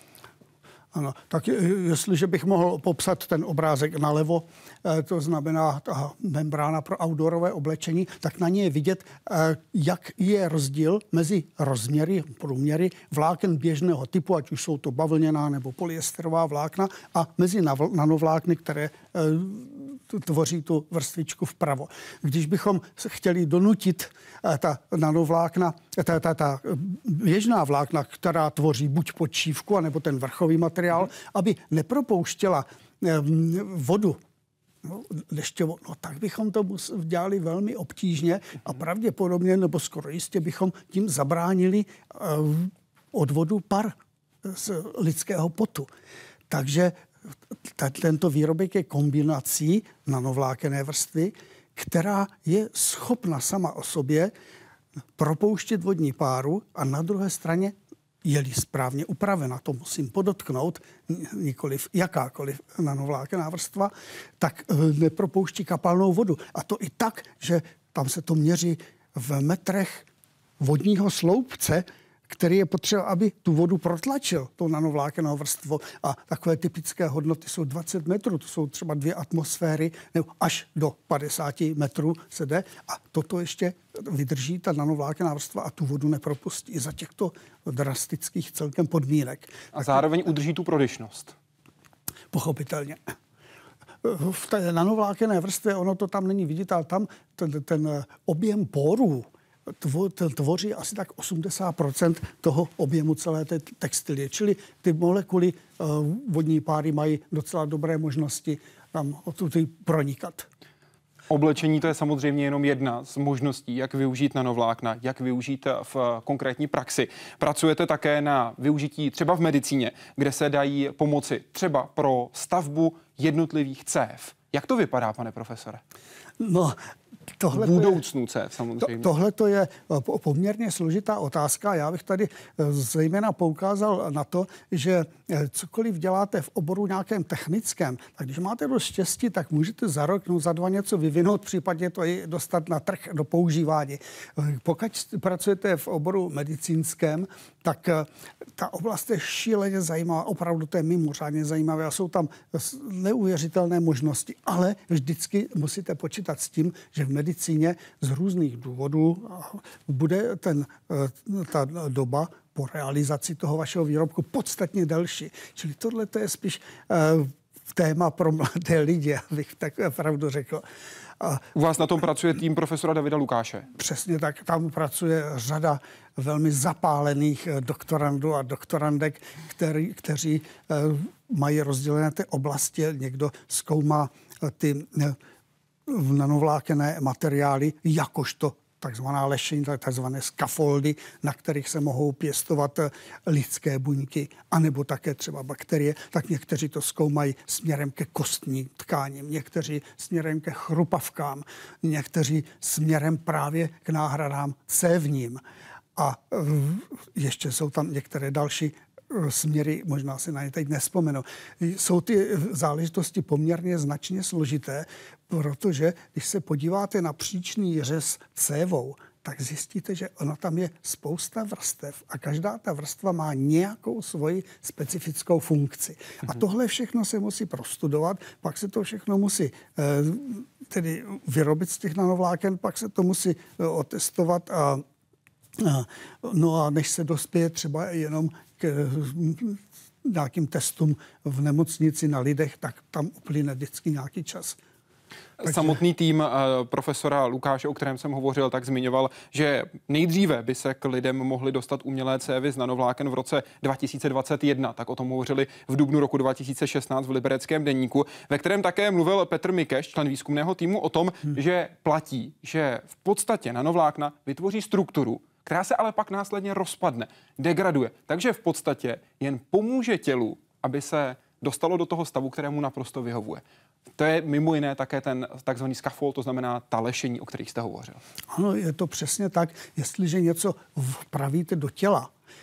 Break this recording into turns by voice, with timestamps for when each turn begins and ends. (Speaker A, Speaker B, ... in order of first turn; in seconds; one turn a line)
Speaker A: 0.9-34.2
Speaker A: 34.8-45.9
Speaker A: 46.5-47.0
Speaker A: 47.6-54.3
Speaker A: 55.2-70.1
Speaker A: 70.6-90.1
Speaker B: 89.7-91.3
Speaker A: 92.3-93.0
Speaker A: 94.0-110.5
Speaker B: 111.3-125.8
Speaker A: 126.4-126.8
Speaker A: 127.4-128.0
Speaker B: 127.5-129.1
Speaker A: 128.8-170.7
Speaker B: 171.6-173.7
Speaker A: 173.8-185.2
Speaker A: 185.9-205.4
Speaker A: 206.0-234.8
Speaker A: 235.6-244.6
Speaker B: 245.4-273.4
Speaker A: 245.4-245.8
Speaker B: 274.0-278.0
Speaker A: 278.3-282.1